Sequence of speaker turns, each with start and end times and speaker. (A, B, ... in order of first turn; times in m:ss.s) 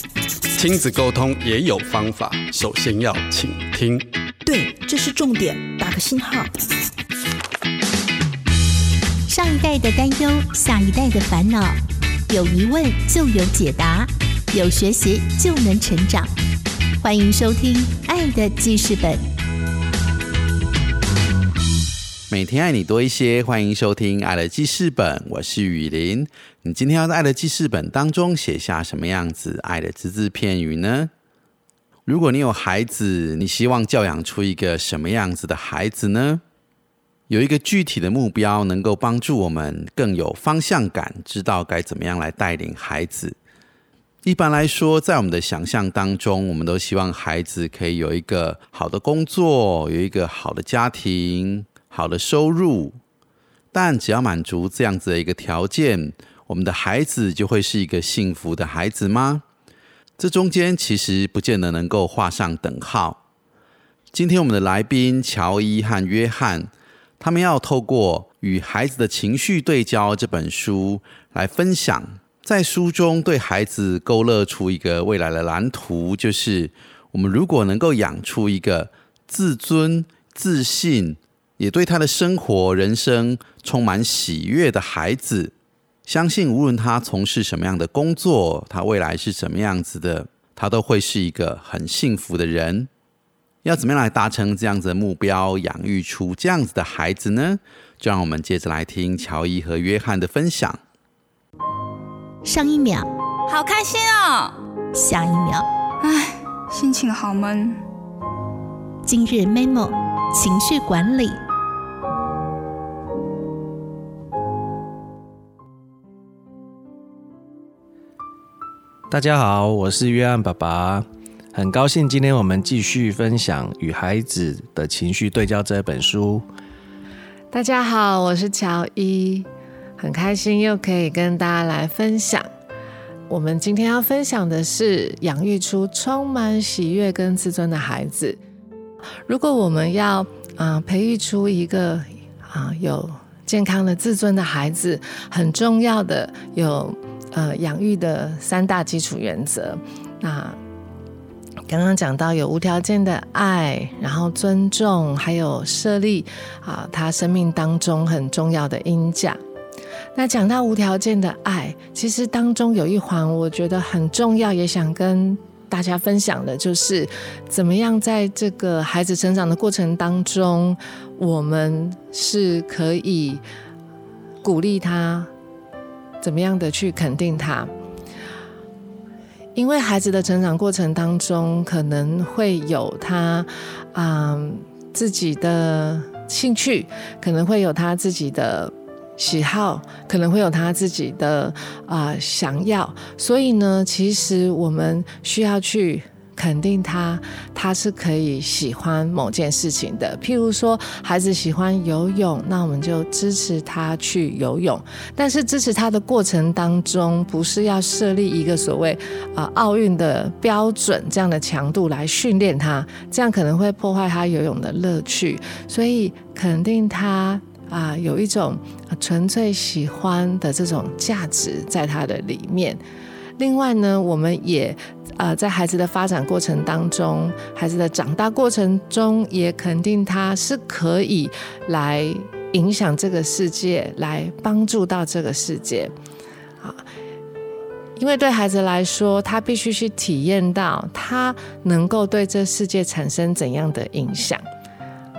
0:00.6-0:04.1 A
0:04.4-0:06.5 B
0:09.3-0:11.8 C
0:12.3-0:16.3 C
0:17.0-0:19.3 C
0:22.3-0:31.1 D
0:32.1-0:36.4 D
0:37.3-0:43.4 D
0:44.2-0:53.0 D
0:53.7-0:59.4 D
1:00.2-1:03.2 D
1:04.1-1:25.5 D
1:26.1-1:32.9 D
1:33.6-1:40.8 D
1:42.4-1:43.1 C
1:43.5-1:44.6 E
1:45.0-1:45.7 C
1:46.0-1:47.8 E
1:49.0-1:51.4 C
1:59.1-2:06.5 F
2:07.5-2:09.5 G
2:10.0-2:12.5 G
2:13.3-2:18.4 G
2:19.3-2:30.6 G
2:31.7-2:39.4 G
2:40.2-2:53.4 G
2:54.4-2:55.3 G
2:56.2-2:57.7 G
2:59.6-3:42.8 G
3:43.4-3:55.9 G
3:58.0-4:04.4 G